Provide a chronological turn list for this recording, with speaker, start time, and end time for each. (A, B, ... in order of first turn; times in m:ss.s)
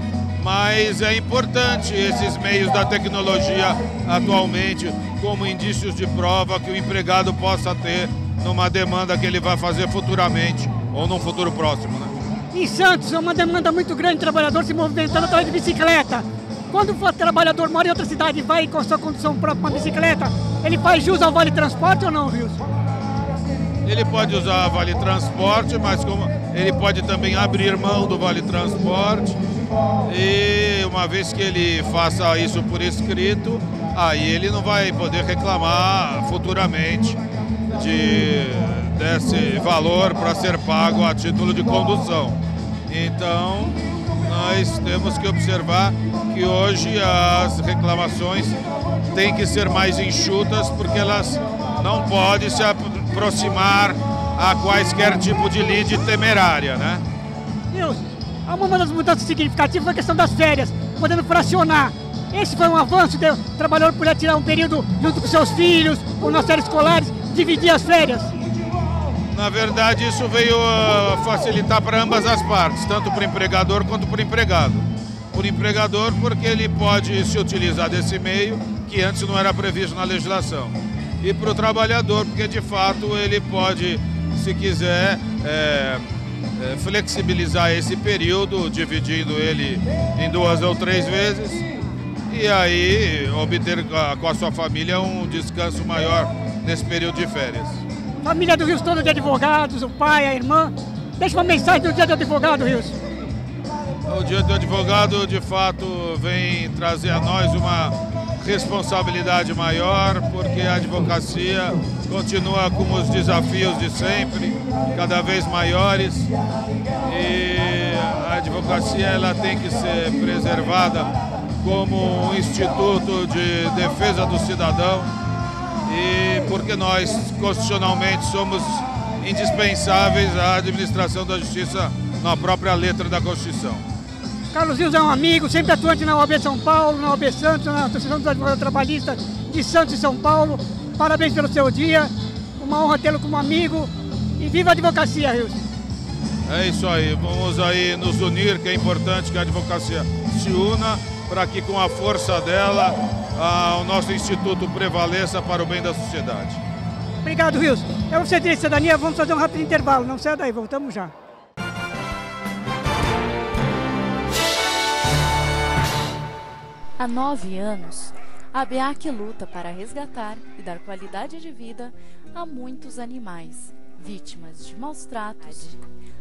0:00.4-0:12.1 A
0:12.5-0:22.6 B
0:23.8-0:29.4 A
0:30.1-0:37.2 A
0:37.7-0:48.6 A
0:49.1-0:57.0 A
0:57.7-1:08.3 B
1:09.3-1:31.6 A
1:32.3-1:37.8 A
1:38.2-1:43.0 B
1:44.0-1:56.3 A
1:57.0-2:05.1 A
2:05.9-2:13.8 A
2:14.5-2:25.6 B
2:26.5-2:36.6 A
2:37.2-2:41.1 B
2:47.0-2:55.8 C